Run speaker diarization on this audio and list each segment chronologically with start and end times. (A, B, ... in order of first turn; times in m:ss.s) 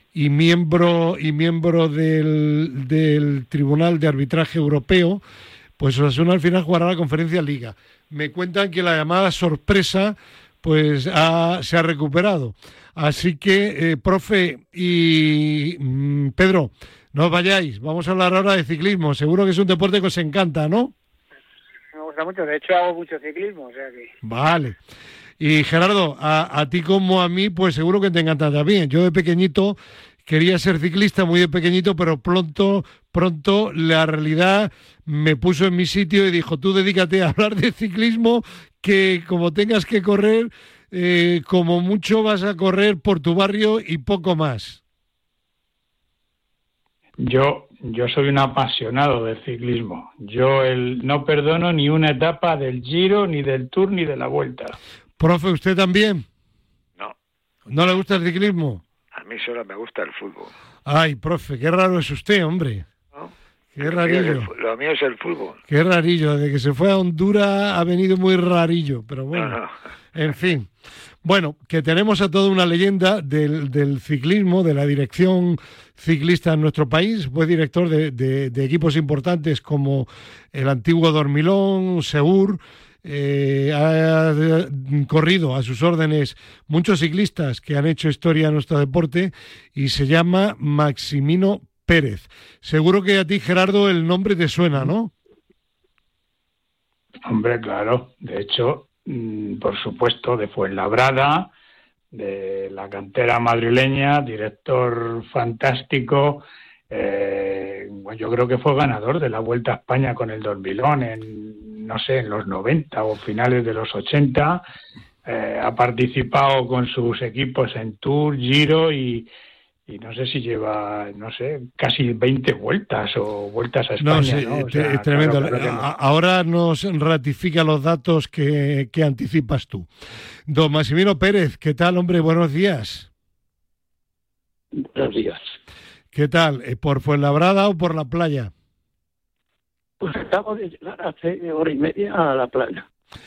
0:00.1-0:05.2 A
0:05.8-0:20.9 A
0:21.9-0:24.1 B
0:24.2-0:24.8 A
0:25.4-0:44.8 A
0:47.2-0:54.8 C
0:55.2-0:56.2 A
0:57.7-0:58.8 A
0:59.1-1:00.5 D
1:00.8-1:02.8 A
1:03.1-1:05.6 D
1:03.8-1:04.5 A
1:05.7-1:09.6 A
1:09.3-1:09.7 D
1:10.1-1:10.7 A
1:11.2-1:35.1 A
1:37.2-1:41.5 C
1:42.1-1:54.6 C
1:55.2-1:59.3 C
1:59.9-2:05.8 C
2:04.0-2:09.9 A
2:10.5-2:13.1 A
2:14.7-2:15.4 E
2:16.1-2:18.5 A
2:20.0-2:22.9 E